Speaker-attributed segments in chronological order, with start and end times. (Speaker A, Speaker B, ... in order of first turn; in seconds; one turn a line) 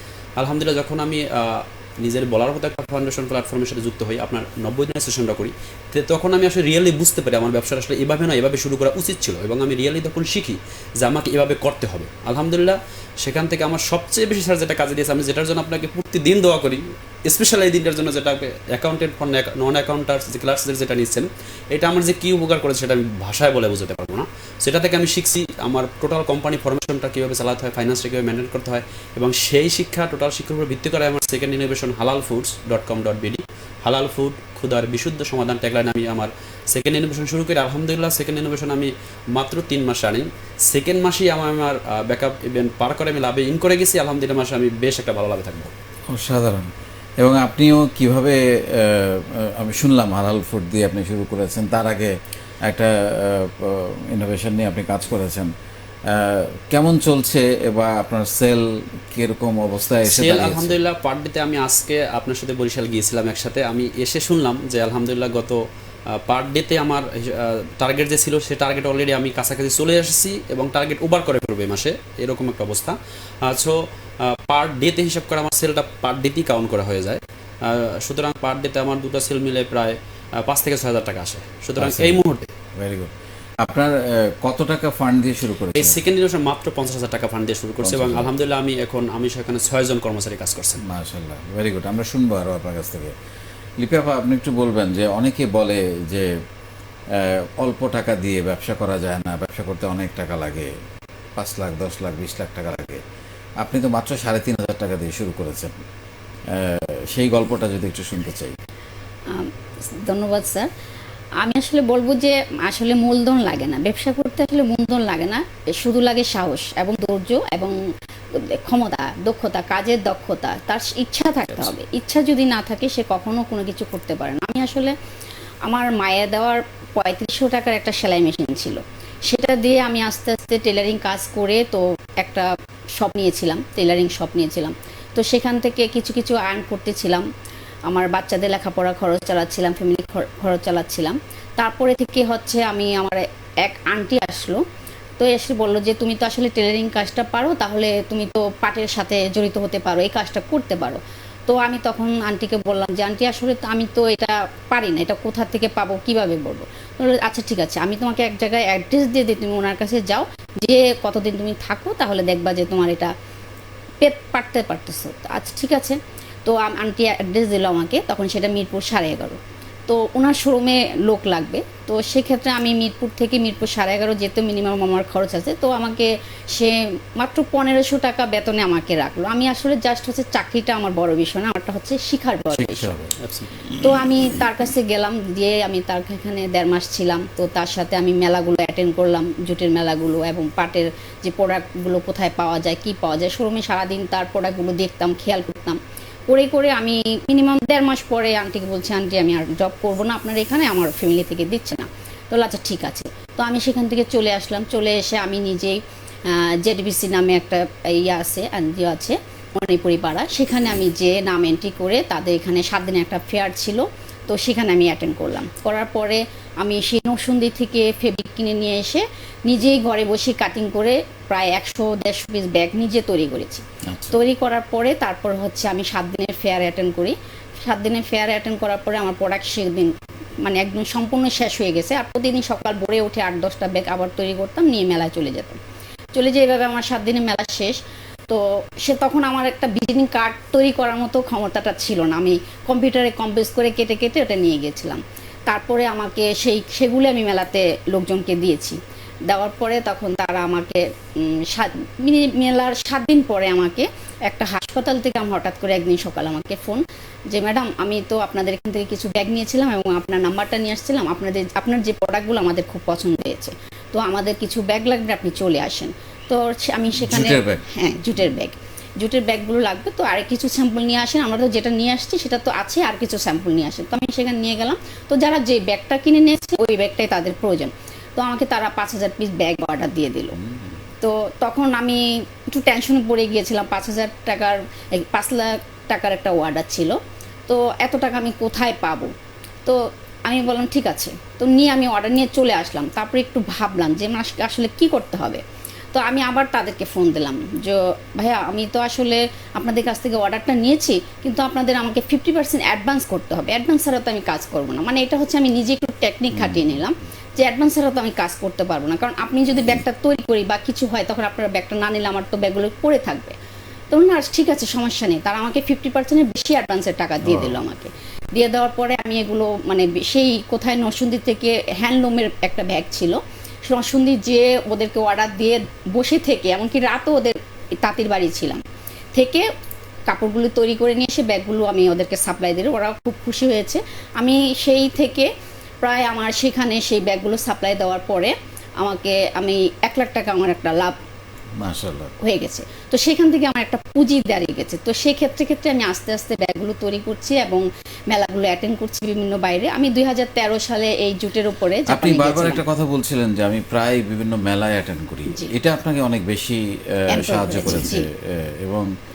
Speaker A: 0.4-45.7
Speaker B: 46.1-55.5
Speaker B: 56.1-60.8
Speaker A: 60.1-82.5
Speaker B: 81.8-82.2
Speaker B: 82.8-86.0
Speaker A: 85.7-90.8
Speaker B: 87.8-88.3
Speaker B: 90.8-93.1
Speaker B: 93.8-96.3
Speaker B: 97.1-100.7
Speaker B: 101.3-103.0
Speaker B: 103.6-105.8
Speaker B: 106.5-108.5
Speaker C: 109.3-110.7
Speaker C: 111.4-117.8
Speaker C: 118.3-124.9
Speaker C: 125.7-137.3
Speaker C: 137.9-144.6
Speaker C: 145.2-163.1
Speaker C: 164.0-182.9
Speaker B: 182.5-183.1
Speaker A: 183.2-183.5
Speaker C: 183.8-235.6
Speaker B: 223.8-224.2
Speaker C: 236.1-280.4
Speaker B: 267.0-267.6
Speaker B: 280.4-280.8
Speaker C: 281.0-289.1
Speaker C: 289.6-295.4
Speaker C: 295.9-313.3
Speaker B: 306.3-306.8
Speaker C: 313.9-328.6
Speaker B: 317.2-317.6
Speaker C: 329.1-329.4
Speaker C: 330.1-335.3
Speaker C: 335.8-341.0
Speaker B: 341.6-342.1
Speaker C: 342.2-352.6
Speaker B: 351.9-358.9
Speaker C: 357.1-358.1